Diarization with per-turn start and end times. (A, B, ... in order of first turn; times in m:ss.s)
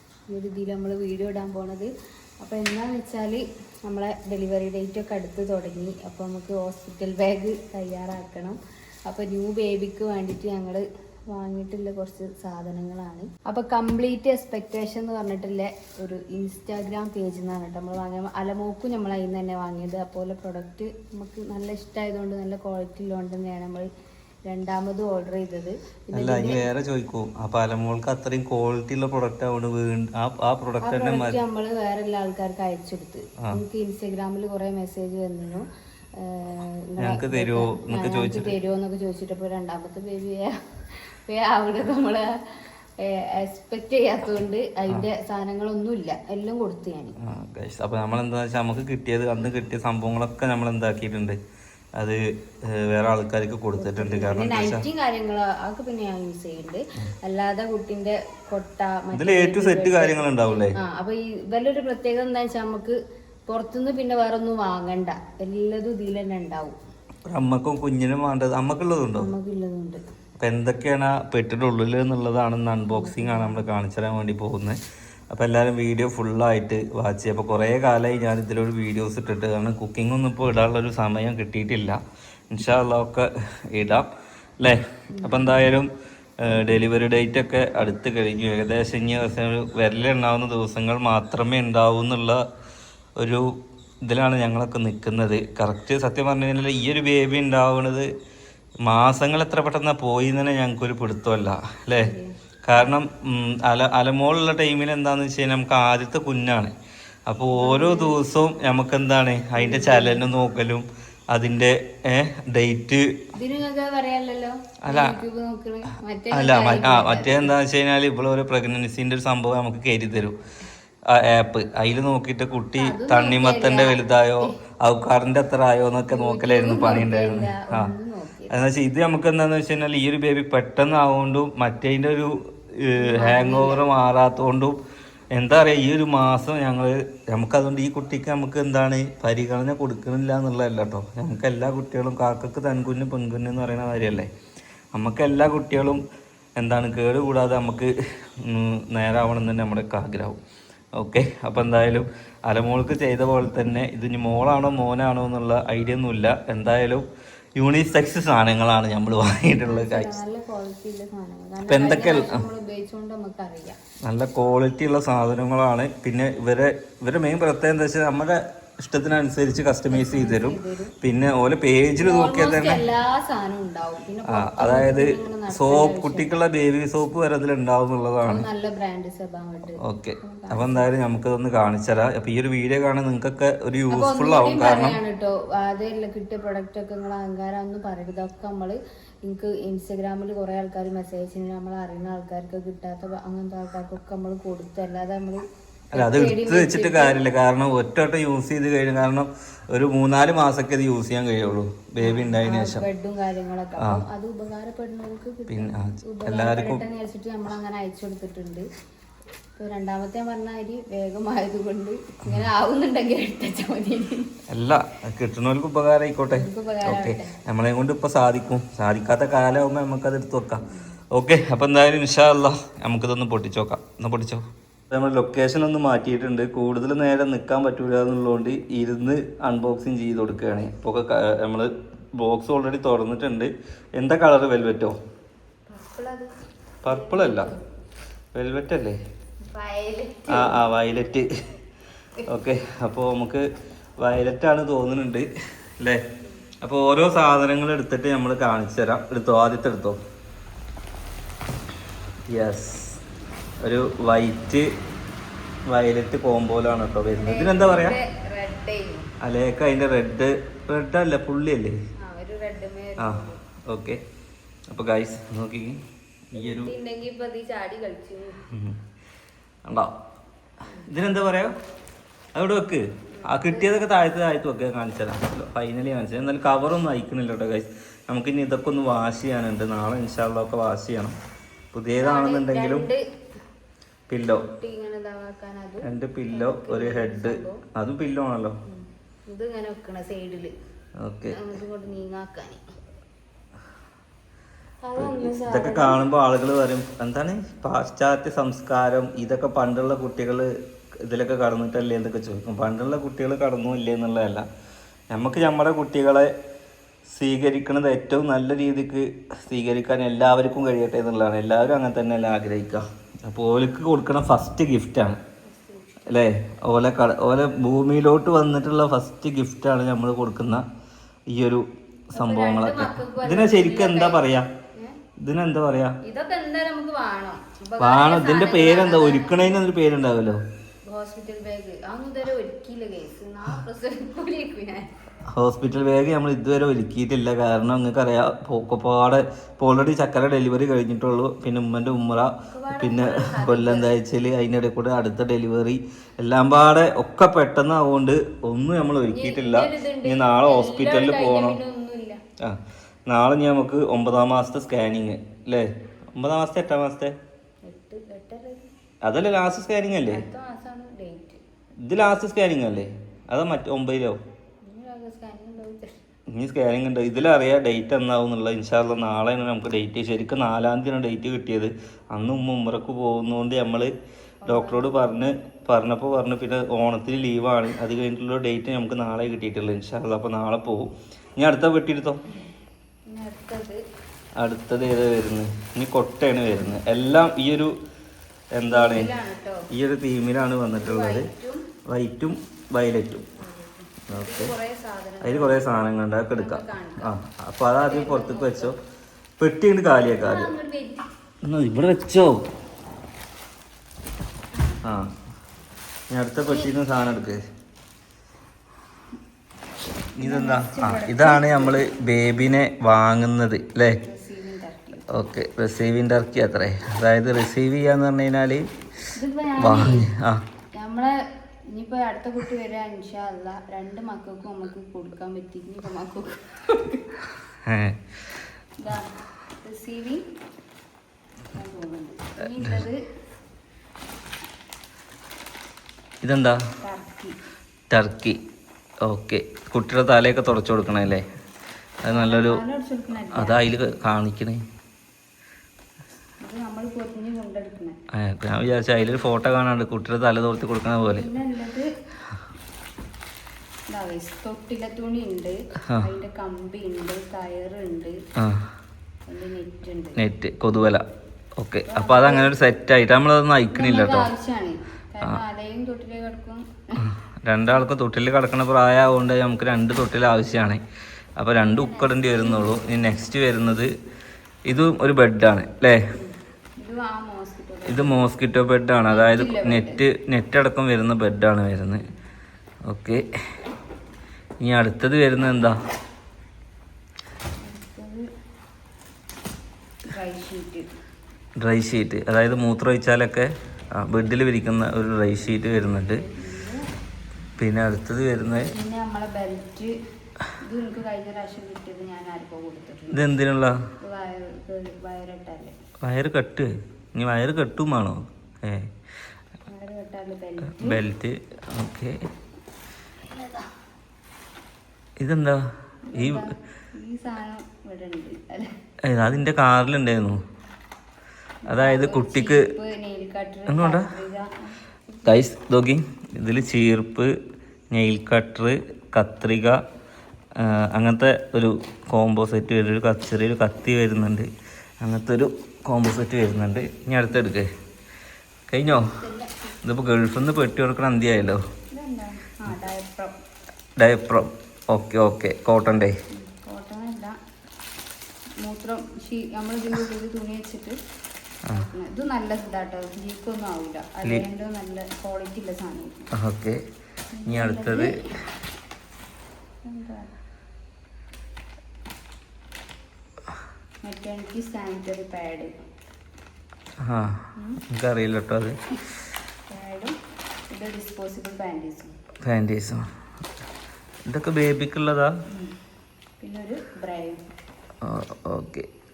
0:00.3-0:01.9 A
0:02.4-0:23.9 A
0:24.5-0:26.7 A
0:26.1-0:31.4 B
0:30.8-0:40.6 A
0:37.0-0:38.5 B
0:41.3-0:47.2 A
0:47.2-0:51.4 B
0:52.0-0:54.8 B
0:53.8-1:06.8 A
0:59.1-1:00.8 B
1:07.2-1:09.3 B
1:09.2-1:10.0 A
1:10.4-1:14.8 B
1:12.9-1:13.6 A
1:15.3-1:22.0 B
1:22.5-1:24.0 B
1:24.6-1:25.9 B
1:25.1-1:25.5 A
1:26.4-1:32.4 B
1:33.2-1:33.5 B
1:34.0-1:38.1 B
1:38.8-1:42.1 B
1:42.0-1:42.9 A
1:42.6-1:46.7 B
1:47.3-1:53.2 B
1:47.5-1:48.2 A
1:49.6-1:50.2 A
1:53.4-1:57.5 A
1:54.8-1:55.2 B
1:56.3-2:00.4 B
2:01.1-2:07.9 B
2:02.8-2:04.5 A
2:06.1-2:08.6 A
2:08.5-2:14.8 B
2:13.0-2:13.8 A
2:15.3-2:24.3 B
2:24.9-2:26.0 B
2:26.6-2:30.4 B
2:31.0-2:37.0 B
2:37.6-2:40.1 B
2:39.6-2:43.8 A
2:41.7-2:42.4 B
2:44.0-2:52.8 B
2:49.9-2:50.9 A
2:52.0-2:56.4 A
2:54.3-2:58.4 B
2:58.2-3:00.8 A
2:59.8-3:05.0 B
3:03.9-3:15.4 A
3:15.9-3:22.8 B
3:15.9-3:17.2 A
3:22.0-3:28.6 A
3:25.5-3:26.8 B
3:29.6-3:34.3 A
3:34.5-3:54.9 B
3:36.3-3:37.3 A
3:40.7-3:40.9 A
3:55.7-3:56.3 A
3:56.8-3:57.5 B
3:56.8-3:57.6 A
3:58.3-3:59.0 B
3:59.4-4:00.6 A
4:00.3-4:01.3 B
4:02.2-4:03.4 B
4:04.0-4:06.0 B
4:06.6-4:10.0 B
4:12.3-4:13.0 B
4:13.6-4:14.7 B
4:15.7-4:18.0 B
4:17.2-4:19.1 A
4:19.2-4:21.7 B
4:22.0-4:23.4 A
4:23.0-4:24.0 B
4:24.7-4:25.8 B
4:26.3-4:26.7 B
4:26.4-4:28.4 A
4:28.5-4:28.8 B
4:29.6-4:29.9 B
4:30.8-4:31.5 B
4:32.3-4:41.2 B
4:33.2-4:33.7 A
4:41.7-4:42.9 B
4:42.0-4:43.0 A
4:44.1-4:44.4 B
4:44.3-4:47.6 A
4:45.8-4:48.6 B
4:48.7-4:50.5 A
4:51.0-4:51.4 B
4:51.3-4:52.6 A
4:54.8-4:56.0 A
4:55.0-5:04.4 B
5:05.1-5:06.3 B
5:07.1-5:15.2 B
5:15.4-5:16.0 A
5:16.0-5:20.6 B
5:21.3-5:24.5 B
5:22.2-5:24.2 A
5:25.2-5:26.0 B
5:26.0-5:29.6 A
5:27.8-5:30.4 B
5:30.9-5:34.9 A
5:35.3-5:51.6 B
5:42.4-5:44.0 A
5:49.1-5:52.2 A
5:52.4-5:57.1 B
5:57.6-5:58.6 A
5:59.0-6:00.2 B
6:00.1-6:01.4 A
6:01.8-6:04.2 B
6:04.6-6:06.0 A
6:06.3-6:13.9 B
6:14.4-6:15.1 A
6:14.5-6:22.2 B
6:23.1-6:23.8 A
6:24.4-6:27.7 B
6:28.6-6:29.1 B
6:28.6-6:29.7 A
6:29.7-6:31.3 B
6:30.8-6:31.7 A
6:31.9-6:33.3 B
6:33.4-6:35.7 A
6:34.1-6:34.5 B
6:35.2-6:38.8 B
6:36.3-6:37.2 A
6:37.8-6:38.7 A
6:39.4-6:40.5 B
6:40.2-6:41.0 A
6:41.4-6:42.4 B
6:44.5-6:44.8 A
6:44.8-6:45.1 B
6:46.1-6:47.4 B
6:46.4-6:46.7 A
6:50.2-6:54.0 B
6:50.2-6:51.9 A
6:53.9-6:55.1 A
6:55.1-6:58.6 B
6:59.1-7:00.1 A
6:59.6-7:00.4 B
7:00.8-7:01.1 A
7:01.7-7:07.1 A
7:07.6-7:08.0 B
7:08.8-7:10.2 A
7:11.5-7:13.0 A
7:16.2-7:16.6 B
7:16.8-7:17.4 A
7:17.9-7:18.4 B
7:19.0-7:21.2 B
7:22.0-7:22.6 B
7:22.1-7:23.8 A
7:23.3-7:24.6 B
7:26.4-7:28.0 A
7:28.1-7:31.3 B
7:31.0-7:31.9 A
7:33.9-7:38.2 A
7:38.4-7:38.7 B
7:39.3-7:40.2 A
7:40.2-7:41.0 B
7:41.6-7:44.3 B
7:41.9-7:42.5 A
7:43.7-7:47.1 A
7:47.0-7:50.8 B
7:51.4-7:53.9 B
7:51.6-7:52.7 A
7:54.7-7:56.0 B
7:56.1-7:58.2 A
7:57.8-8:02.1 B
7:59.1-8:00.0 A
8:02.9-8:03.2 B
8:04.6-8:05.8 B
8:07.6-8:08.2 A
8:10.1-8:10.9 A
8:11.6-8:16.2 B
8:15.6-8:16.8 A
8:17.6-8:18.7 B
8:18.6-8:20.0 A
8:20.6-8:23.2 A
8:23.1-8:23.8 B
8:24.0-8:25.7 A
8:26.0-8:28.9 B
8:29.7-8:31.0 A
8:30.7-8:32.2 B
8:33.3-8:33.7 A
8:35.2-8:36.4 B
8:36.1-8:38.7 A
8:39.0-8:40.4 B
8:41.7-8:42.7 B
8:41.7-8:44.8 A
8:43.7-8:44.1 B
8:45.2-8:47.3 B
8:47.9-8:49.8 B
8:50.6-8:54.5 B
8:55.0-8:57.7 B
8:58.7-8:59.1 B
8:58.9-8:59.6 A
8:59.8-9:01.6 B
9:01.9-9:03.3 A
9:04.0-9:06.2 B
9:06.4-9:07.4 A
9:08.6-9:11.0 A
9:11.7-9:16.3 A
9:16.3-9:16.8 B
9:17.3-9:18.2 A
9:17.4-9:18.2 B
9:19.8-9:20.3 A
9:24.0-9:25.7 A
9:27.0-9:28.8 B
9:27.6-9:27.8 A
9:29.7-9:30.1 A
9:30.7-9:32.1 A
9:32.4-9:33.1 B
9:34.3-9:35.3 B
9:36.4-9:37.4 A
9:38.0-9:38.8 B